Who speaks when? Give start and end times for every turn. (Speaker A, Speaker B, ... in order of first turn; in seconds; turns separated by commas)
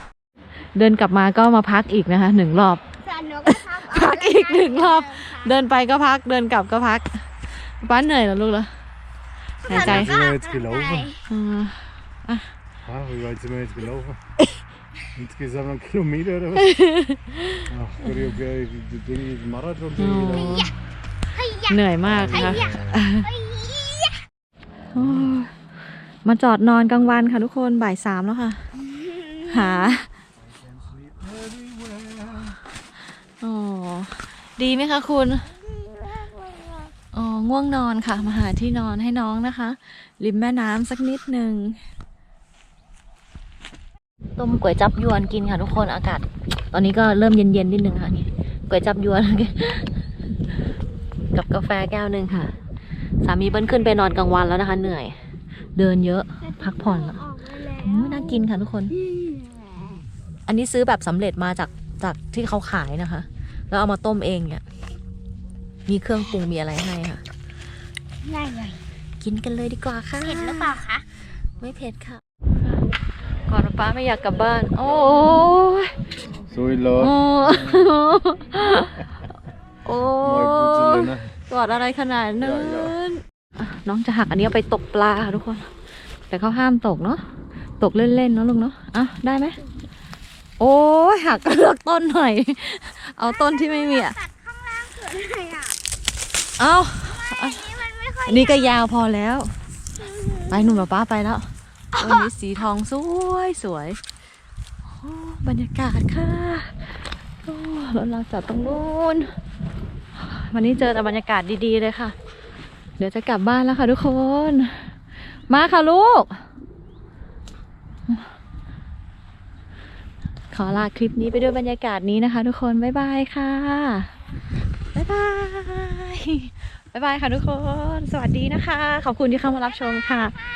Speaker A: 0.7-2.8, Speaker B: 3.0-5.5, Speaker A: 3.5-8.7, Speaker A: 9.6-10.1, Speaker B: 9.6-11.2, Speaker C: 9.7-11.2, Speaker A: 11.2-12.5, Speaker C: 12.8-14.2, Speaker C: 15.1-16.8, Speaker A: 16.6-17.7, Speaker C: 17.7-20.6, Speaker A: 19.9-20.7, Speaker B: 20.3-20.7, Speaker B: 21.3-24.2, Speaker A: 21.7-23.3, Speaker C: 22.0-23.1, Speaker A: 24.9-25.5, Speaker A: 26.2-28.6, Speaker B: 28.9-29.9, Speaker A: 29.4-30.1, Speaker C: 31.0-32.6, Speaker A: 33.4-35.5, Speaker B: 35.7-36.9, Speaker A: 37.1-41.8, Speaker A: 44.4-49.9, Speaker A: 51.3-52.5, Speaker A: 53.2-55.2, Speaker A: 55.7-59.0, Speaker B: 56.5-58.4, Speaker B: 59.0-59.5, Speaker A: 60.5-64.6, Speaker A: 65.9-67.2, Speaker B: 68.2-68.8, Speaker A: 69.2-70.8, Speaker B: 70.2-71.0, Speaker A: 71.6-72.2, Speaker A: 73.5-76.0, Speaker C: 76.5-77.2, Speaker A: 77.0-79.1, Speaker A: 79.8-85.7, Speaker C: 80.2-81.3, Speaker C: 82.4-83.0, Speaker A: 86.3-87.2, Speaker A: 87.8-89.6, Speaker A: 90.6-94.2, Speaker B: 93.2-95.8, Speaker A: 96.6-97.7, Speaker B: 97.1-98.8, Speaker A: 98.3-99.5, Speaker B: 100.0-100.8, Speaker A: 100.5-104.0, Speaker B: 101.9-102.3, Speaker A: 104.9-109.3, Speaker A: 110.1-112.1, Speaker A: 113.0-115.0, Speaker A: 115.5-116.4, Speaker A: 120.5-124.1, Speaker A: 124.9-130.3